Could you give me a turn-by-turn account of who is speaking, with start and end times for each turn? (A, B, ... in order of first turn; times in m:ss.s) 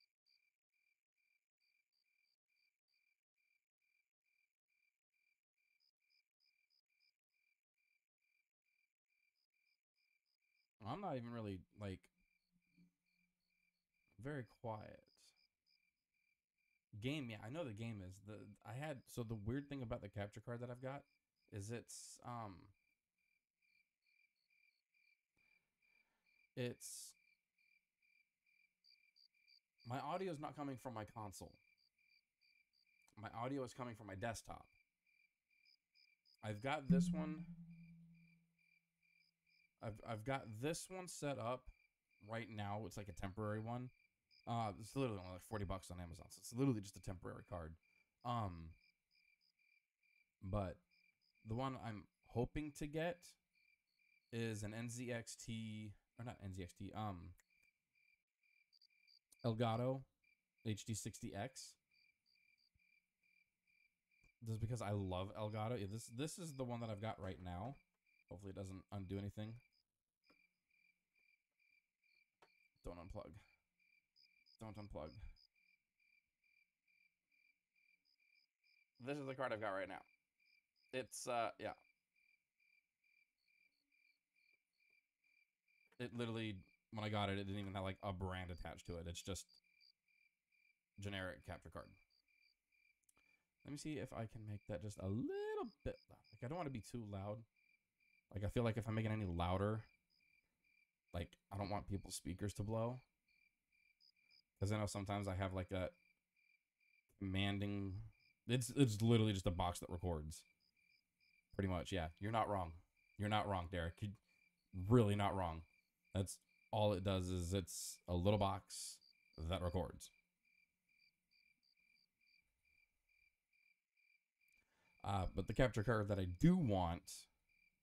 0:10.8-0:12.1 A
0:14.2-0:15.4 A
0:16.9-0:22.7 A
0:26.6-0:27.2 A
0:29.8-0:31.6 A
0:33.2-0:34.7 A
0:36.4-0:37.5 A
0:39.8-0:43.9 A
0:44.5-0:48.8 A
0:50.4-0:50.8 A
0:51.4-0:53.4 A
0:54.3-0:57.4 A
0:59.4-1:00.1 A
1:00.6-1:01.8 A
1:04.4-1:09.6 A
1:12.8-1:13.4 A
1:14.6-1:15.2 A
1:19.0-1:20.0 A
1:20.9-1:21.8 A
1:26.0-1:29.6 A
1:31.0-1:32.0 A
1:33.6-1:37.5 A
1:38.3-1:39.9 A
1:41.1-1:43.0 A
1:44.6-1:46.0 A
1:47.2-1:50.4 A
1:51.5-1:54.1 A
1:54.7-2:00.1 A
2:05.0-2:07.3 A